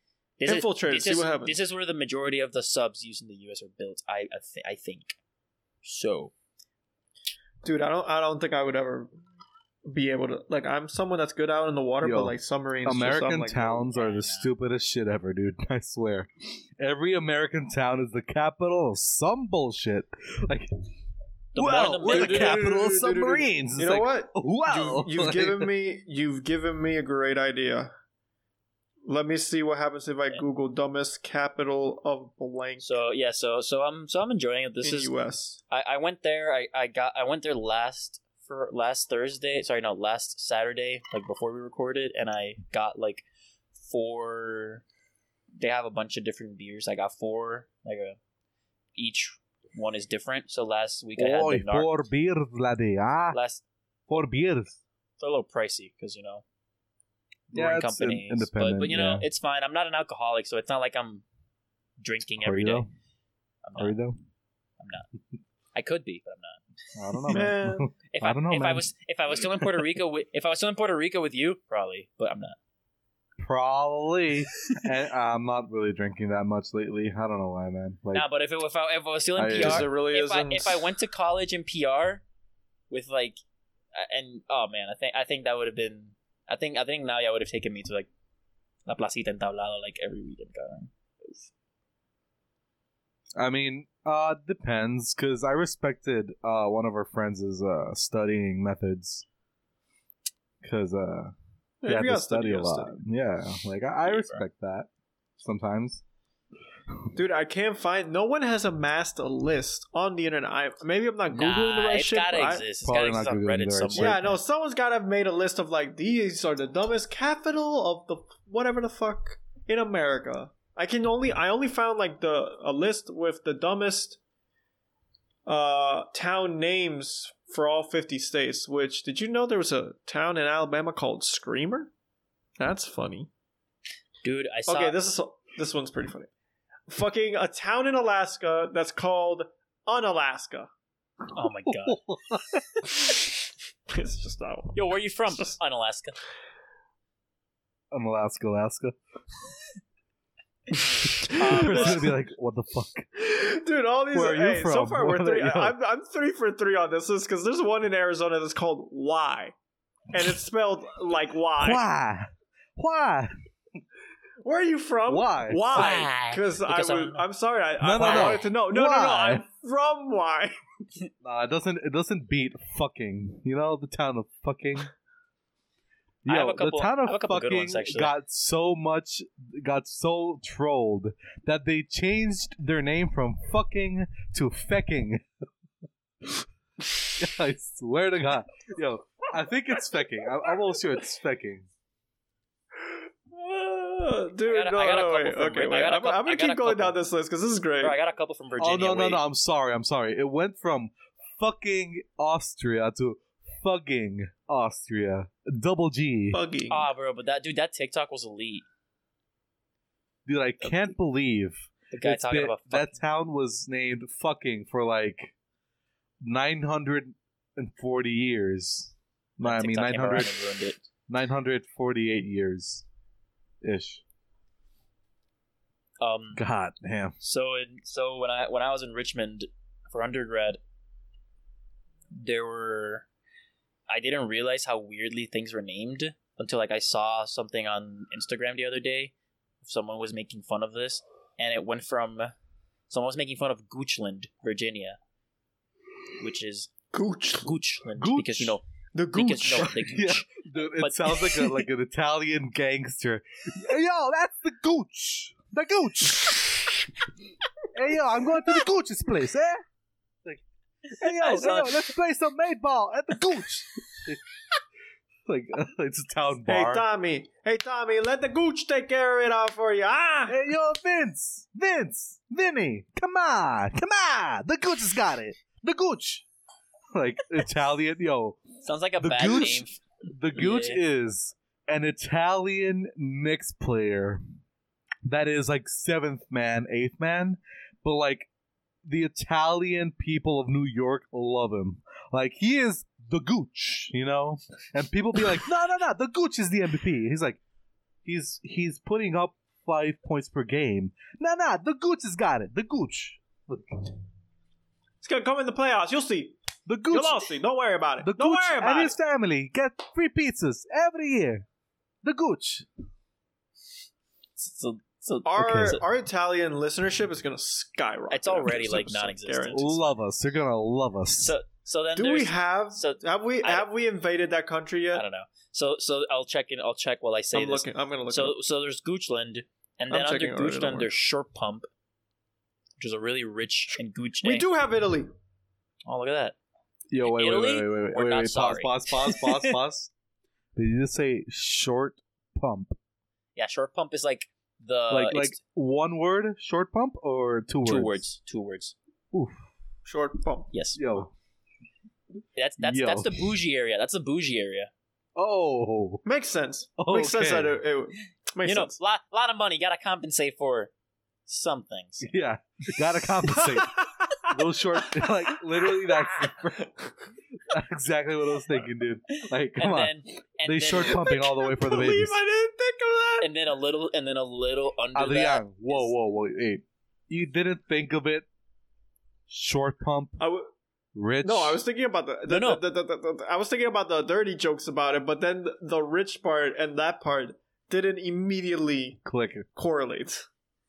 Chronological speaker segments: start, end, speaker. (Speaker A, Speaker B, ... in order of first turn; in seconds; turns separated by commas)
Speaker A: 0.4-5.2, Speaker B: 0.4-1.6, Speaker A: 5.8-6.3, Speaker B: 7.6-9.1, Speaker B: 9.8-13.9, Speaker C: 12.0-20.7, Speaker A: 13.9-14.5, Speaker A: 21.5-22.6, Speaker C: 21.6-25.7, Speaker B: 21.8-27.9, Speaker B: 29.0-32.9, Speaker A: 32.8-35.1, Speaker B: 34.8-35.6, Speaker A: 35.7-43.2, Speaker A: 43.8-44.8, Speaker A: 45.6-48.2, Speaker A: 48.9-51.9, Speaker C: 51.2-53.4, Speaker A: 53.3-53.6, Speaker C: 54.1-54.8, Speaker A: 55.2-56.4, Speaker C: 57.5-59.3, Speaker A: 57.5-61.2, Speaker A: 62.0-62.8, Speaker C: 62.4-62.9, Speaker A: 63.6-63.9, Speaker C: 63.8-64.2, Speaker A: 64.8-65.1, Speaker A: 65.7-66.6, Speaker C: 67.0-68.9, Speaker B: 67.3-67.9, Speaker A: 68.1-72.6, Speaker C: 73.4-78.2, Speaker A: 78.1-82.2, Speaker C: 79.4-79.8, Speaker B: 79.5-80.8, Speaker A: 82.9-83.4, Speaker A: 83.9-88.1, Speaker A: 88.9-91.5, Speaker C: 93.4-99.2, Speaker C: 100.6-101.3, Speaker B: 101.8-103.0, Speaker C: 101.9-106.0, Speaker A: 104.0-104.4, Speaker B: 107.1-112.6, Speaker A: 111.3-114.4, Speaker C: 112.8-114.3, Speaker B: 113.9-124.2, Speaker B: 125.5-131.9, Speaker B: 132.6-133.3, Speaker A: 134.2-135.0, Speaker B: 134.7-136.3, Speaker B: 136.9-140.7, Speaker A: 141.3-142.0, Speaker C: 141.8-142.6, Speaker A: 142.8-143.0, Speaker B: 143.0-143.3, Speaker B: 143.9-144.8, Speaker A: 144.7-146.2, Speaker C: 147.9-148.9, Speaker B: 151.1-152.1, Speaker A: 151.3-152.0, Speaker C: 151.4-153.1, Speaker B: 153.2-159.5, Speaker C: 154.1-155.7, Speaker B: 160.1-161.8, Speaker C: 161.6-163.3, Speaker B: 164.4-170.6, Speaker C: 165.1-165.9, Speaker A: 165.7-167.2, Speaker C: 167.8-169.4, Speaker A: 168.0-168.4, Speaker C: 171.2-174.9, Speaker C: 176.2-185.2, Speaker A: 176.2-178.1, Speaker C: 187.2-191.7, Speaker B: 192.9-197.9, Speaker A: 194.4-197.0, Speaker A: 197.8-199.2, Speaker C: 198.6-206.4, Speaker B: 206.3-206.9, Speaker A: 206.7-208.7, Speaker C: 210.2-215.3, Speaker A: 211.9-213.0, Speaker C: 216.2-220.3, Speaker A: 219.4-220.8, Speaker C: 221.1-222.8, Speaker C: 223.6-224.0, Speaker A: 226.0-226.4, Speaker C: 226.3-227.1, Speaker A: 227.2-230.6, Speaker A: 232.2-233.1, Speaker A: 233.9-242.3, Speaker A: 242.9-245.0, Speaker A: 246.2-246.7, Speaker B: 246.9-247.5, Speaker A: 247.4-251.6, Speaker C: 248.0-248.6, Speaker B: 248.9-249.8, Speaker C: 249.6-256.4, Speaker C: 257.7-259.6, Speaker C: 260.2-264.2, Speaker A: 260.9-261.9, Speaker C: 265.2-266.8, Speaker B: 266.5-270.4, Speaker C: 270.3-276.2, Speaker C: 276.9-278.4, Speaker A: 278.6-280.8, Speaker C: 279.0-284.2, Speaker C: 285.0-288.3, Speaker C: 288.8-297.4, Speaker C: 298.0-303.9, Speaker B: 305.0-306.4, Speaker C: 306.6-307.3, Speaker B: 306.9-309.0, Speaker C: 308.0-311.4, Speaker C: 312.0-312.7, Speaker A: 314.4-315.8, Speaker B: 315.2-319.7, Speaker A: 318.1-319.9, Speaker C: 319.5-321.3, Speaker A: 321.1-323.7, Speaker B: 321.9-325.0, Speaker A: 324.9-331.7, Speaker B: 327.3-328.4, Speaker B: 329.9-330.9, Speaker A: 332.8-334.5, Speaker B: 334.2-335.1, Speaker A: 335.9-336.4, Speaker C: 336.9-339.9, Speaker A: 337.0-339.5, Speaker C: 340.5-342.8, Speaker A: 343.4-345.4, Speaker C: 344.9-348.0, Speaker A: 347.6-348.7, Speaker C: 349.1-349.5, Speaker B: 349.9-350.5, Speaker A: 350.5-350.8, Speaker C: 350.8-351.1, Speaker A: 352.4-354.7, Speaker C: 352.6-353.4, Speaker C: 355.1-356.0, Speaker B: 356.1-358.7, Speaker C: 356.8-357.6, Speaker A: 358.4-360.7, Speaker A: 361.3-362.1, Speaker C: 362.0-366.7, Speaker A: 363.3-363.6, Speaker B: 364.9-367.1, Speaker C: 367.4-372.2, Speaker A: 369.1-371.0, Speaker B: 370.9-373.3, Speaker A: 373.2-375.9, Speaker C: 374.9-378.2, Speaker C: 379.3-380.2, Speaker B: 380.2-380.5, Speaker C: 380.9-381.6, Speaker B: 381.2-389.0, Speaker A: 382.3-382.6, Speaker C: 389.1-389.5, Speaker B: 389.5-390.3